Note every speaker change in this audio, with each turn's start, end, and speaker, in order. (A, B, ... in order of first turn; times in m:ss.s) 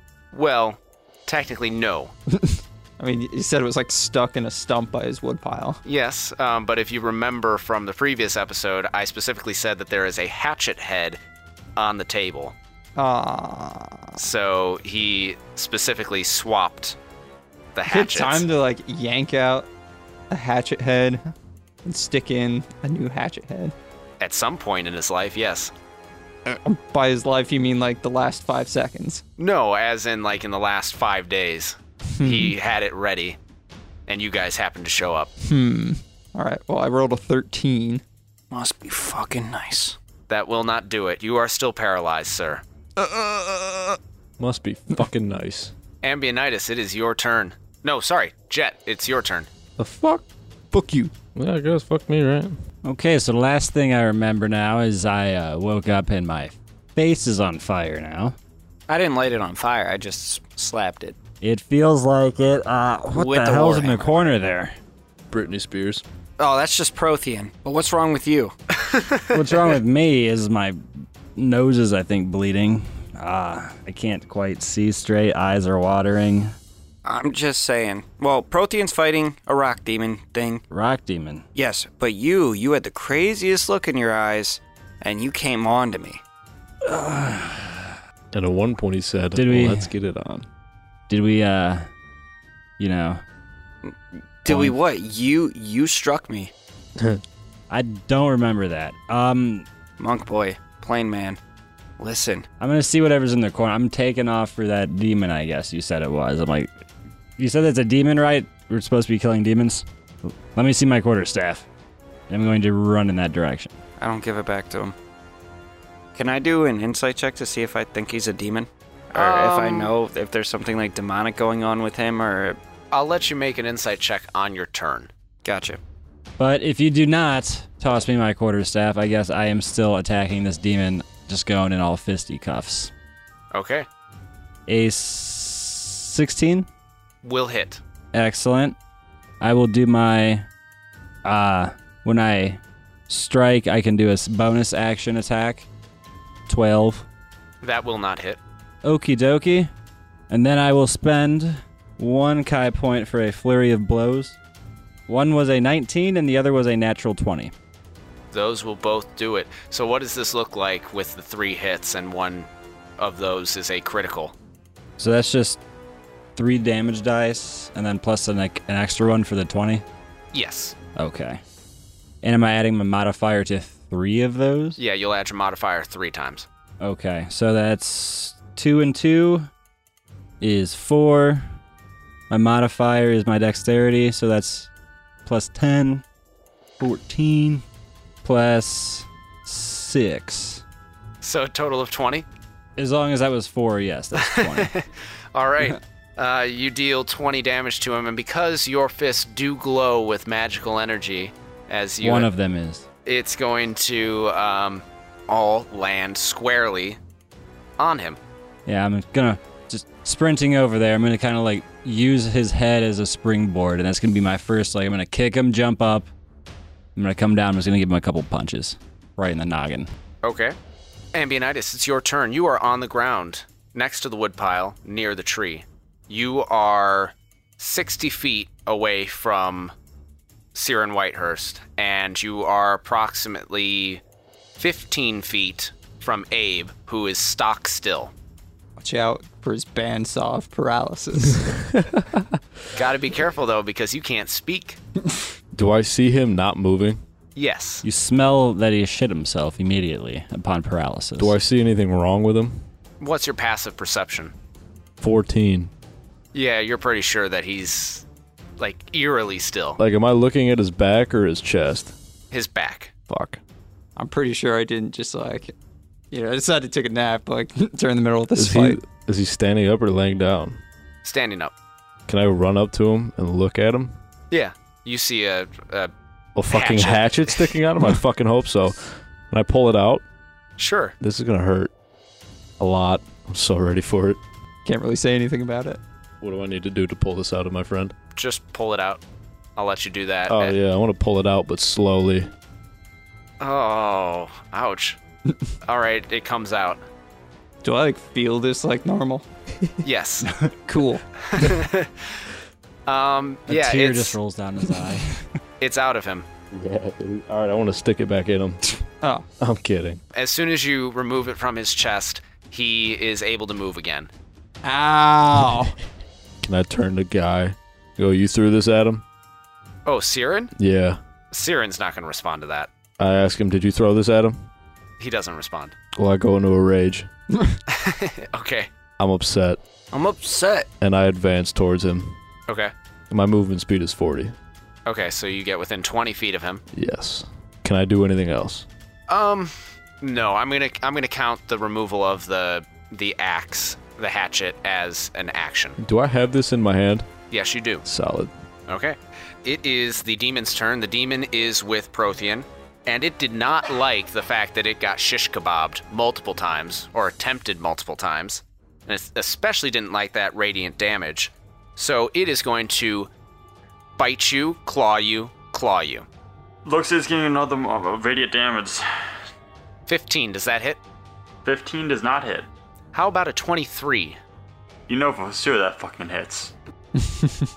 0:00.3-0:02.1 A
0:02.4-0:05.8 B
0:05.8-0:11.2 A
0:11.8-0:12.6 A
0:13.0-0:14.2 B
0:14.2-0:17.0 A
0:17.8-0:18.4 A
0:17.9-0:19.7 B
0:20.3-0:21.3 B
0:21.8-0:23.7 B
0:24.2-0:25.7 A
0:26.5-0:29.2 B
0:29.4-0:33.4 A
0:32.2-0:32.5 B
0:34.1-0:35.3 A
0:35.4-0:38.0 B
0:38.5-0:40.0 C
0:40.3-0:42.6 A
0:43.0-0:45.7 D
0:46.0-0:49.5 A
0:49.8-0:50.2 D
0:50.8-0:51.1 B
0:51.3-0:52.6 D
0:52.8-0:58.4 E
0:58.9-1:01.2 C
1:01.4-1:04.7 E
1:03.1-1:04.1 C
1:05.3-1:06.0 D
1:06.4-1:08.5 C
1:09.3-1:10.8 E
1:11.4-1:16.6 E
1:17.0-1:20.6 C
1:20.7-1:21.4 E
1:21.6-1:26.2 C
1:26.8-1:28.0 E
1:28.3-1:30.5 D
1:29.4-1:29.9 E
1:31.1-1:31.9 E
1:32.8-1:33.2 E
1:33.8-1:36.5 C
1:34.5-1:34.8 E
1:37.7-1:39.7 E
1:40.0-1:41.4 C
1:42.0-1:42.5 C
1:42.6-1:46.7 E
1:47.4-1:49.8 E
1:50.5-1:51.7 E
1:52.3-1:53.7 E
1:54.0-1:55.0 C
1:56.2-2:02.6 C
1:59.1-1:59.9 A
2:02.9-2:05.1 A
2:05.4-2:05.8 C
2:06.4-2:12.9 E
2:13.5-2:13.9 A
2:14.7-2:16.7 E
2:17.2-2:17.8 A
2:18.1-2:18.8 E
2:19.4-2:20.5 E
2:21.2-2:25.7 E
2:26.5-2:27.1 E
2:27.6-2:28.4 A
2:28.8-2:29.7 E
2:30.3-2:34.4 E
2:35.1-2:37.5 E
2:38.3-2:44.4 A
2:45.0-2:45.6 E
2:46.4-2:49.8 E
2:50.3-2:50.8 A
2:51.0-2:51.4 E
2:52.2-2:54.8 E
2:54.8-2:56.5 A
2:56.8-2:59.5 E
3:00.4-3:01.4 E
3:02.3-3:04.7 E
3:05.2-3:06.0 E
3:06.8-3:07.6 E
3:08.2-3:10.6 E
3:11.2-3:12.3 A
3:12.8-3:14.7 E
3:14.2-3:22.3 A
3:22.0-3:22.9 E
3:23.0-3:27.0 A
3:27.8-3:28.2 A
3:28.7-3:36.1 E
3:37.0-3:39.9 E
3:40.2-3:40.6 A
3:41.1-3:49.7 A
3:50.6-3:54.0 A
3:54.6-3:58.1 A
3:58.8-4:01.7 B
4:02.8-4:04.8 A
4:05.5-4:07.0 D
4:07.4-4:07.8 A
4:07.8-4:11.4 E
4:11.2-4:12.7 D
4:13.0-4:14.3 A
4:15.0-4:15.7 D
4:16.3-4:18.0 A
4:18.6-4:19.8 A
4:19.8-4:22.0 D
4:22.3-4:22.9 A
4:23.1-4:23.4 D
4:24.0-4:25.5 B
4:26.1-4:28.8 B
4:28.4-4:30.6 D
4:31.0-4:31.5 A
4:32.1-4:34.0 D
4:34.3-4:35.9 A
4:36.4-4:40.0 D
4:36.5-4:37.5 A
4:40.6-4:40.9 A
4:41.0-4:41.7 D
4:42.6-4:44.2 D
4:44.6-4:45.8 B
4:46.2-4:47.9 D
4:48.2-4:49.0 A
4:49.6-4:50.6 A
4:50.3-4:52.3 D
4:53.4-4:55.0 A
4:55.6-4:56.8 A
4:57.6-4:59.2 B
4:59.8-5:00.4 A
5:00.7-5:01.0 B
5:01.2-5:02.1 A
5:02.9-5:04.2 A
5:03.5-5:05.3 E
5:05.6-5:06.3 A
5:06.5-5:08.6 D
5:09.4-5:10.0 D
5:10.1-5:14.1 A
5:14.6-5:15.8 B
5:16.4-5:19.0 D
5:19.9-5:20.5 A
5:20.6-5:21.0 D
5:21.3-5:22.7 A
5:23.0-5:24.5 D
5:25.0-5:25.8 A
5:26.0-5:27.1 D
5:27.7-5:28.7 A
5:29.0-5:29.6 D
5:29.9-5:30.7 C
5:30.8-5:32.2 D
5:32.5-5:32.7 A
5:33.1-5:34.4 D
5:34.9-5:36.6 A
5:36.7-5:38.7 D
5:39.1-5:45.8 A
5:45.8-5:47.1 D
5:47.3-5:47.8 A
5:47.8-5:48.3 D
5:48.7-6:03.1 A
6:04.0-6:06.1 A
6:06.7-6:08.8 F
6:09.9-6:10.8 A
6:11.4-6:12.5 F
6:12.9-6:14.2 A
6:14.9-6:16.5 F
6:17.0-6:17.3 B